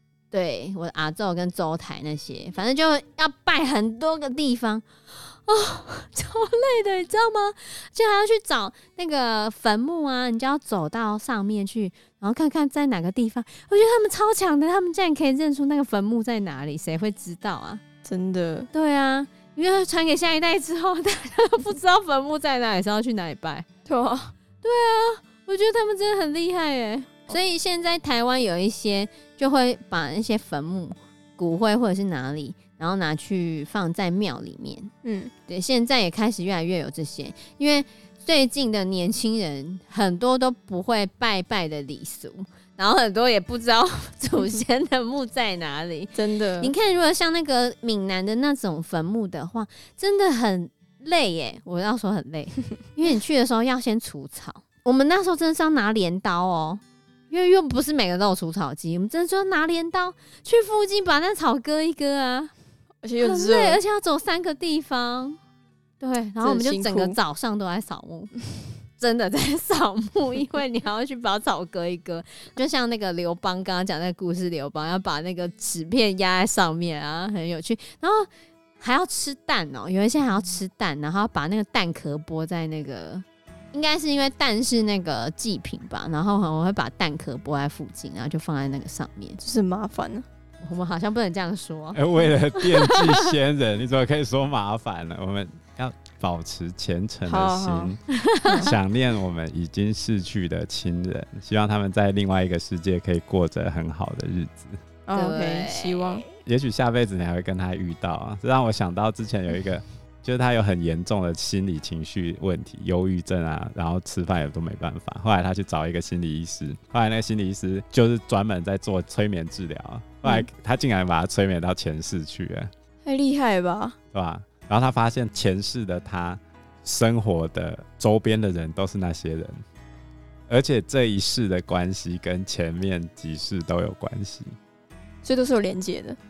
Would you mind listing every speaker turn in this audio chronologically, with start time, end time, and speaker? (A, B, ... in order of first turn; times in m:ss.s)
0:00.3-0:17.8 A
0:18.0-0:18.7 B
0:18.7-0:23.7 A
0:23.9-0:24.3 B
0:24.6-0:34.9 A
0:35.0-0:35.3 B
0:35.5-1:02.5 A
0:46.1-0:46.7 B
1:03.0-1:03.8 B
1:03.2-1:05.4 A
1:06.0-1:08.3 A
1:06.4-1:07.2 B
1:09.0-1:18.3 A
1:18.8-1:29.4 A
1:29.4-1:30.3 B
1:30.6-1:32.0 A
1:32.0-1:38.0 C
1:32.6-1:33.3 A
1:37.3-1:38.0 B
1:38.1-1:38.7 A
1:38.6-1:44.8 C
1:45.1-1:46.2 B
1:45.1-1:46.2 A
1:46.4-2:02.7 C
2:03.0-2:04.0 B
2:04.1-2:09.6 C
2:10.5-2:14.6 C
2:15.2-2:16.2 B